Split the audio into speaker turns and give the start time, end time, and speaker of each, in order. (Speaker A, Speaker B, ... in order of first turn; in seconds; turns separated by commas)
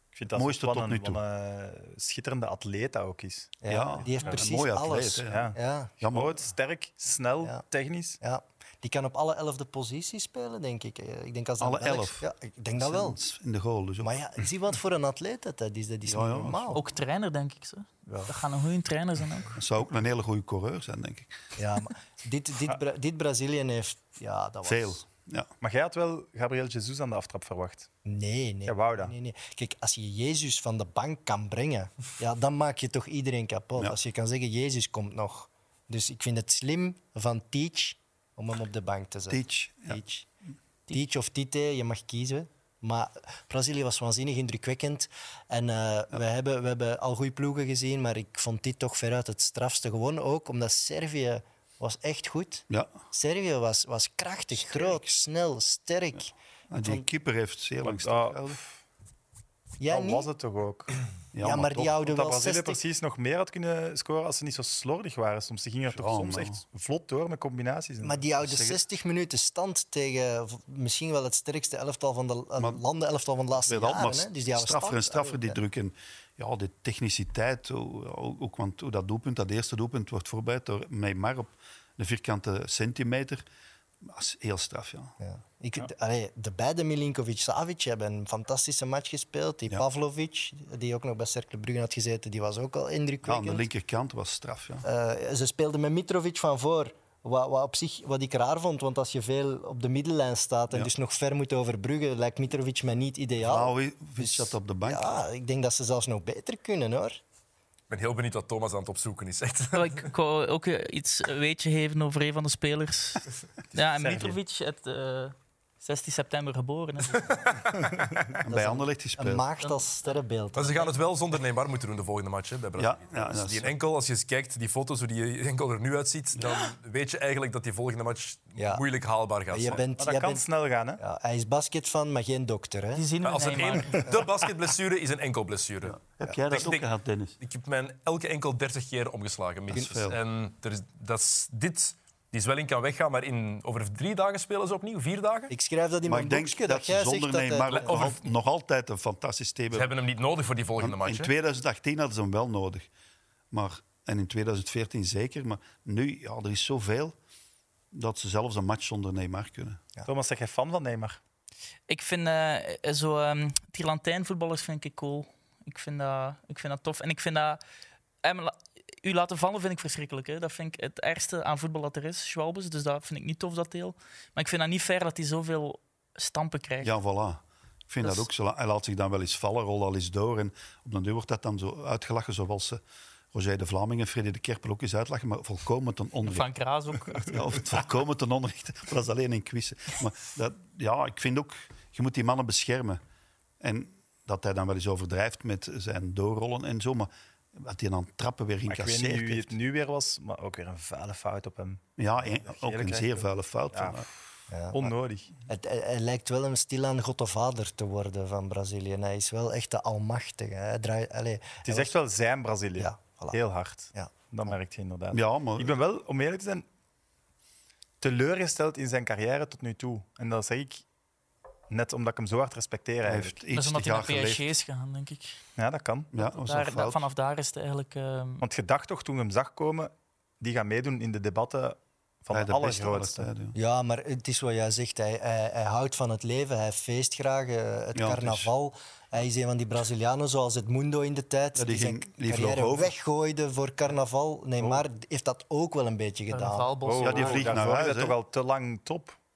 Speaker A: 0.1-3.5, Speaker B: 0.3-1.2, Speaker C: 3.6-5.9, Speaker B: 3.7-6.4, Speaker A: 5.3-8.2, Speaker C: 8.2-13.2, Speaker B: 11.6-14.1, Speaker C: 14.0-16.8, Speaker B: 16.1-16.8, Speaker D: 16.7-19.6, Speaker C: 18.1-18.3, Speaker B: 19.6-21.3, Speaker C: 21.6-25.0, Speaker B: 24.6-25.5, Speaker A: 25.6-27.9, Speaker C: 28.1-40.3, Speaker A: 28.6-29.1, Speaker B: 39.3-40.0, Speaker C: 40.9-57.0, Speaker B: 54.5-55.1, Speaker B: 56.7-58.6, Speaker A: 57.8-58.8, Speaker C: 59.8-60.3, Speaker A: 59.9-60.9, Speaker B: 61.3-62.0, Speaker C: 61.4-62.8, Speaker A: 62.0-68.2, Speaker B: 65.9-66.6, Speaker C: 68.0-75.6, Speaker B: 68.4-68.8, Speaker B: 72.6-72.8, Speaker B: 73.6-83.4, Speaker B: 84.0-85.1, Speaker C: 85.2-93.6, Speaker B: 93.2-94.9, Speaker C: 94.8-107.2, Speaker B: 103.4-105.2, Speaker E: 107.9-110.0, Speaker D: 109.7-117.4, Speaker A: 113.9-114.4, Speaker E: 117.1-117.9, Speaker B: 118.4-119.4, Speaker C: 118.4-120.9, Speaker D: 119.6-119.9, Speaker E: 120.5-129.8, Speaker B: 122.8-123.7, Speaker C: 128.6-128.8, Speaker C: 129.5-130.4, Speaker A: 130.0-131.0, Speaker C: 131.0-133.1, Speaker D: 132.9-134.2, Speaker E: 133.2-136.9, Speaker B: 135.9-137.4, Speaker E: 137.4-145.5, Speaker B: 139.7-140.2, Speaker C: 145.5-148.1, Speaker B: 146.1-149.9, Speaker E: 147.7-148.2, Speaker E: 149.7-151.3, Speaker B: 150.8-152.9, Speaker B: 153.5-157.1, Speaker B: 157.9-159.8, Speaker A: 160.1-161.2, Speaker D: 161.9-167.6, Speaker D: 168.2-176.9, Speaker B: 176.8-182.8, Speaker B: 183.3-186.5, Speaker D: 186.2-187.5, Speaker B: 187.3-193.0, Speaker B: 193.6-199.6, Speaker A: 198.7-204.1, Speaker B: 202.0-204.1, Speaker C: 204.5-204.9, Speaker A: 204.7-205.3, Speaker C: 205.4-211.9, Speaker A: 211.6-216.7, Speaker C: 212.8-213.4, Speaker B: 215.1-215.8, Speaker A: 218.0-220.8, Speaker A: 221.7-223.4, Speaker B: 223.0-224.5, Speaker D: 223.5-225.4, Speaker A: 225.6-226.1, Speaker B: 226.1-227.1, Speaker D: 226.2-228.4, Speaker A: 228.4-233.3, Speaker B: 232.3-233.6, Speaker C: 233.5-246.8, Speaker B: 237.9-238.5, Speaker B: 241.6-242.9, Speaker A: 244.6-244.8, Speaker D: 246.3-247.6, Speaker A: 246.8-249.2, Speaker B: 247.0-248.2